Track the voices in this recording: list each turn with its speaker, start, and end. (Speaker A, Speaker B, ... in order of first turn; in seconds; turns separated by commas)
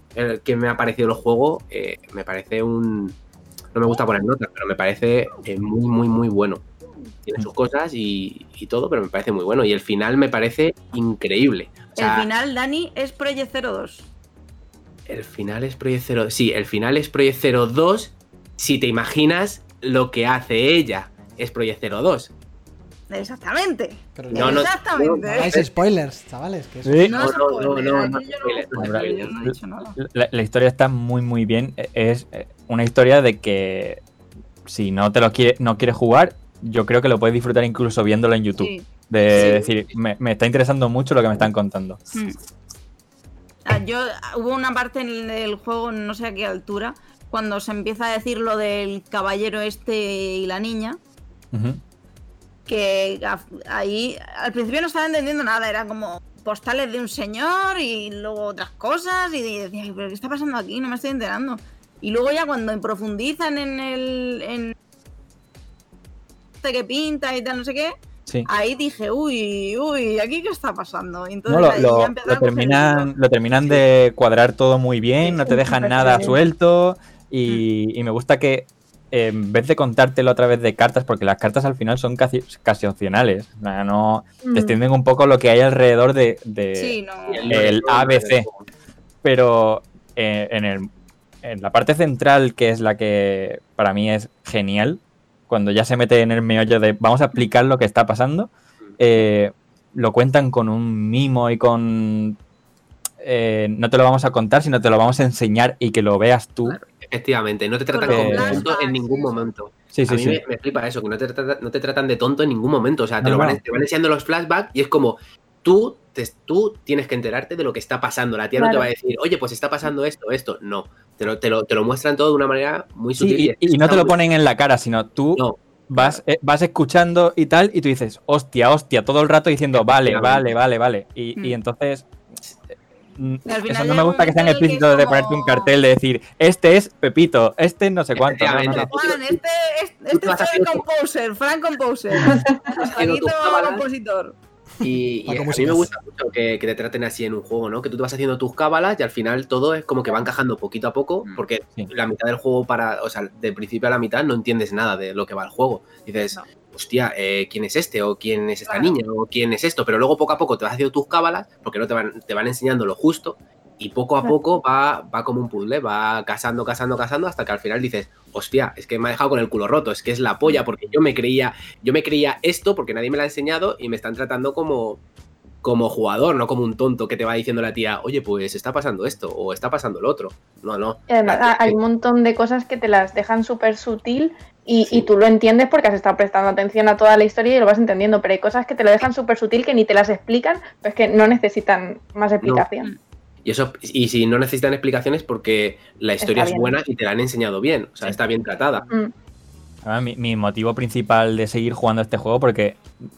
Speaker A: 0.1-3.2, Speaker A: 3.7-6.6, Speaker A: 7.2-12.3, Speaker B: 11.9-14.1, Speaker A: 15.1-22.3, Speaker B: 23.1-25.6, Speaker C: 24.1-24.7, Speaker A: 24.3-25.7, Speaker C: 25.3-27.1, Speaker D: 26.9-27.2, Speaker B: 27.0-30.0, Speaker A: 27.1-29.3, Speaker D: 28.8-34.0, Speaker D: 34.6-42.0, Speaker B: 38.6-39.6, Speaker A: 39.3-39.8, Speaker B: 42.1-42.4, Speaker B: 43.6-51.0, Speaker D: 51.5-51.8, Speaker B: 52.6-64.7, Speaker B: 66.6-67.9, Speaker B: 68.5-73.8, Speaker D: 71.5-87.0, Speaker E: 75.2-76.4, Speaker E: 84.4-84.8, Speaker B: 86.7-87.6, Speaker A: 87.3-88.6, Speaker D: 87.5-88.5, Speaker D: 89.2-90.9, Speaker D: 91.4-102.4, Speaker D: 103.2-106.8, Speaker A: 107.0-124.2, Speaker B: 107.9-109.5, Speaker D: 108.1-108.7, Speaker D: 109.9-110.4, Speaker D: 113.2-113.6, Speaker E: 118.6-118.9, Speaker D: 123.2-132.1, Speaker B: 125.9-126.2, Speaker A: 129.7-130.6, Speaker D: 133.2-139.0, Speaker B: 133.4-135.7, Speaker A: 138.2-139.4, Speaker B: 138.7-144.4, Speaker A: 140.1-140.8, Speaker E: 142.2-142.6, Speaker A: 142.8-143.8, Speaker A: 144.8-175.0, Speaker C: 145.2-145.9, Speaker A: 175.6-181.8, Speaker E: 181.1-192.9, Speaker A: 193.4-198.9, Speaker E: 196.2-196.7, Speaker D: 199.8-202.8